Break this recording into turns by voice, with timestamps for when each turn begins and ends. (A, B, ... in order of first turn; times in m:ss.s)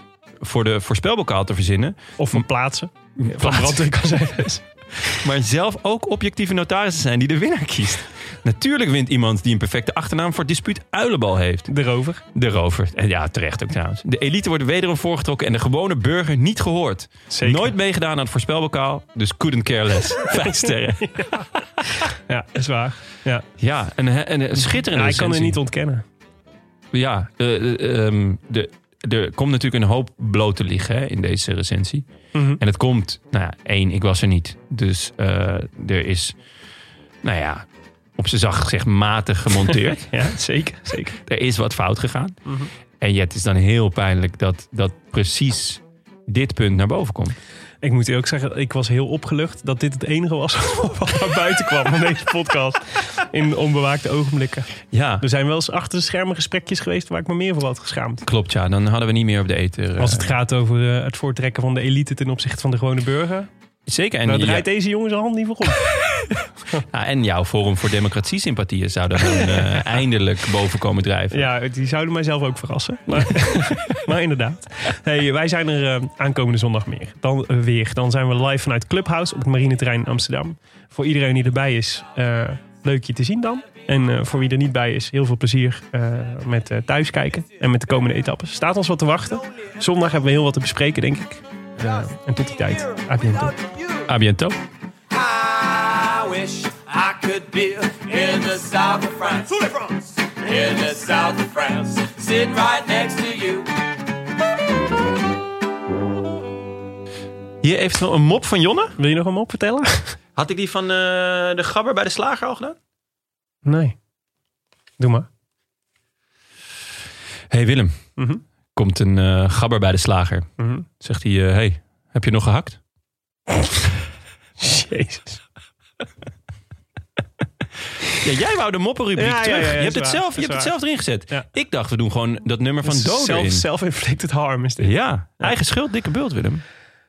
0:00.4-0:02.4 A
0:02.2-0:05.1 B
0:03.2-0:03.9 A
0:05.0-0:11.7 A
0:11.7-0:12.2 B
0:12.3-0:21.3 A
0:17.3-0:17.7 B
0:20.4-0:23.4 B
0:23.6-0:25.6 A
0:24.6-0:26.0 B
0:26.9-0:32.0 A
0:32.3-0:32.6 B
0:32.6-0:36.4 A
0:37.2-0:37.6 A
0:38.2-0:40.1 A
0:39.7-0:41.2 B
0:41.3-0:42.4 A
0:42.4-0:42.7 B
0:43.0-0:47.4 A
0:47.8-0:54.7 B
0:54.9-0:55.2 A
0:55.2-0:58.2 B
0:58.2-1:00.3 A
1:00.0-1:03.5 B
1:03.9-1:04.6 A
1:04.2-1:05.9 B
1:06.9-1:11.5 A
1:11.3-1:33.6 B
1:34.1-1:34.6 A
1:35.1-1:43.7 C
1:47.6-1:49.0 A
1:49.0-1:50.1 B
1:50.4-1:52.8 A
1:53.6-1:54.0 B
1:55.0-1:55.3 B
1:57.5-1:58.0 A
1:58.2-1:58.4 B
1:58.7-2:00.4 A
2:00.6-2:00.9 B
2:01.0-2:02.8 A
2:04.6-2:05.4 B
2:08.0-2:13.6 A
2:09.1-2:10.7 B
2:12.8-2:15.5 B
2:14.8-2:16.6 A